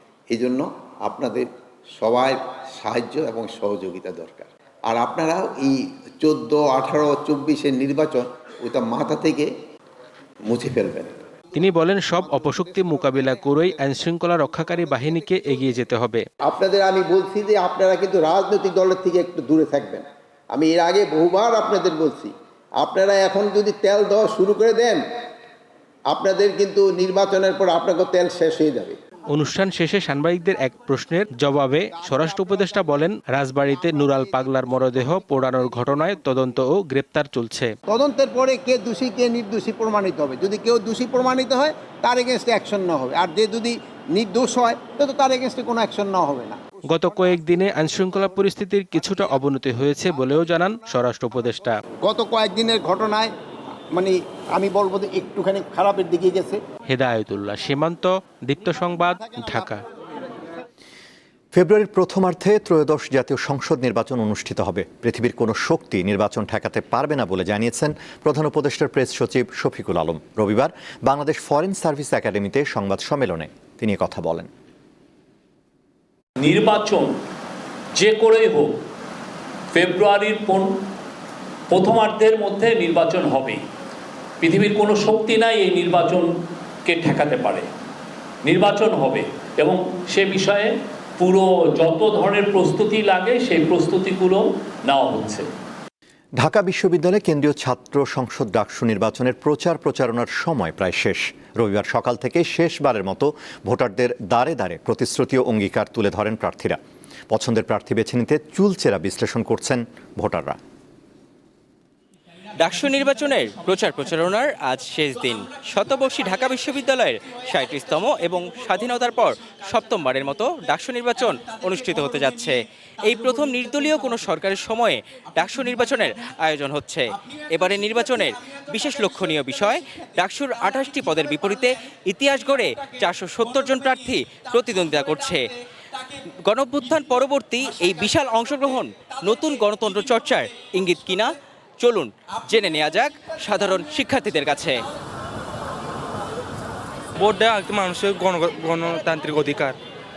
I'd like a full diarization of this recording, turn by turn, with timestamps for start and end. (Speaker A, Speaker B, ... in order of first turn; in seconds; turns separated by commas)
Speaker A: 0.3-9.5, Speaker A: 10.5-11.2, Speaker B: 11.5-16.2, Speaker A: 16.4-25.0, Speaker A: 26.1-29.0, Speaker B: 29.3-37.7, Speaker A: 37.9-46.6, Speaker B: 46.9-51.8, Speaker A: 52.0-53.3, Speaker A: 53.9-56.6, Speaker B: 56.9-59.8, Speaker C: 61.5-74.5, Speaker D: 76.4-77.1, Speaker D: 78.0-78.7, Speaker D: 79.7-80.7, Speaker D: 81.7-83.6, Speaker D: 84.4-86.3, Speaker D: 86.8-87.7, Speaker D: 88.5-95.5, Speaker C: 96.4-106.8, Speaker C: 107.3-110.6, Speaker E: 112.6-135.4, Speaker E: 136.4-144.8, Speaker F: 147.2-149.8